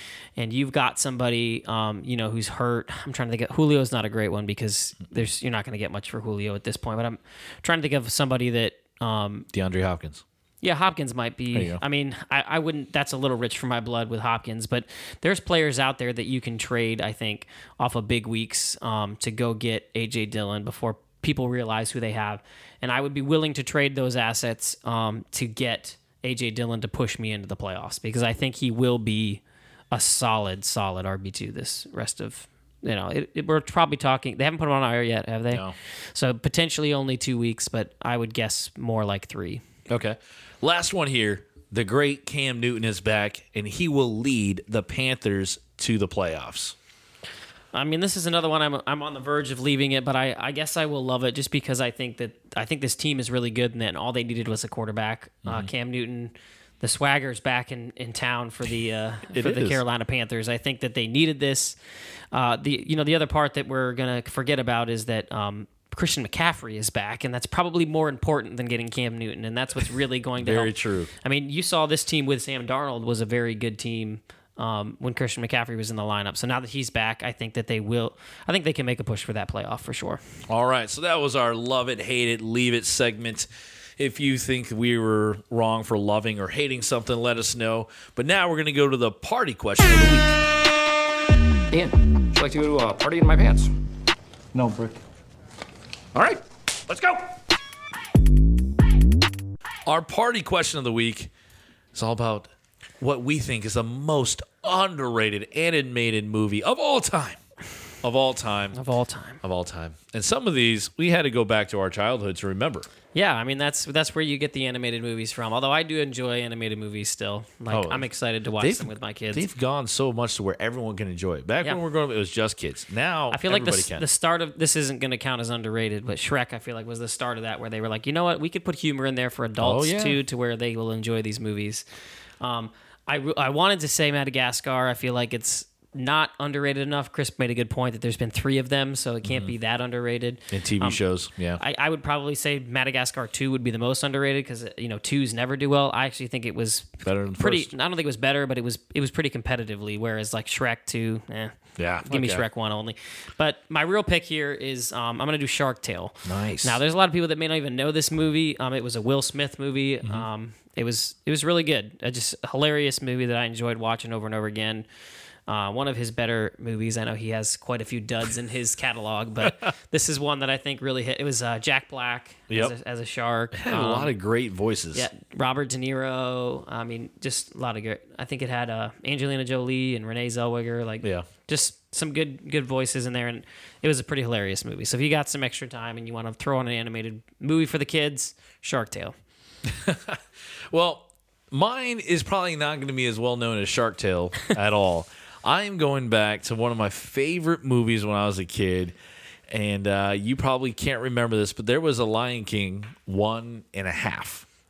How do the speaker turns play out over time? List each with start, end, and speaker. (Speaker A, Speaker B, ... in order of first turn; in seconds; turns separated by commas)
Speaker A: 0.4-9.4, Speaker B: 9.5-10.2, Speaker A: 10.6-29.4, Speaker B: 11.5-11.8, Speaker A: 29.9-39.6, Speaker B: 39.9-46.8, Speaker A: 47.7-61.8, Speaker B: 59.3-59.8, Speaker A: 62.3-80.2, Speaker B: 70.4-71.1, Speaker B: 80.5-90.4, Speaker C: 91.7-93.7, Speaker C: 94.5-95.0, Speaker B: 99.8-101.3, Speaker B: 101.9-102.5, Speaker B: 103.0-107.4, Speaker B: 108.0-108.8, Speaker A: 108.7-109.4, Speaker B: 109.4-112.9, Speaker A: 113.1-119.4, Speaker B: 117.7-118.0, Speaker B: 118.6-124.0, Speaker A: 123.3-131.8, Speaker B: 129.6-130.2, Speaker A: 132.4-141.0, Speaker B: 139.2-139.5, Speaker B: 140.5-141.6, Speaker A: 141.6-164.8, Speaker B: 147.0-147.7, Speaker B: 151.8-152.4, Speaker B: 156.2-156.8, Speaker A: 165.5-174.1, Speaker B: 173.5-175.1, Speaker A: 174.9-189.1, Speaker B: 189.6-190.2, Speaker B: 190.7-198.9, Speaker B: 199.5-204.4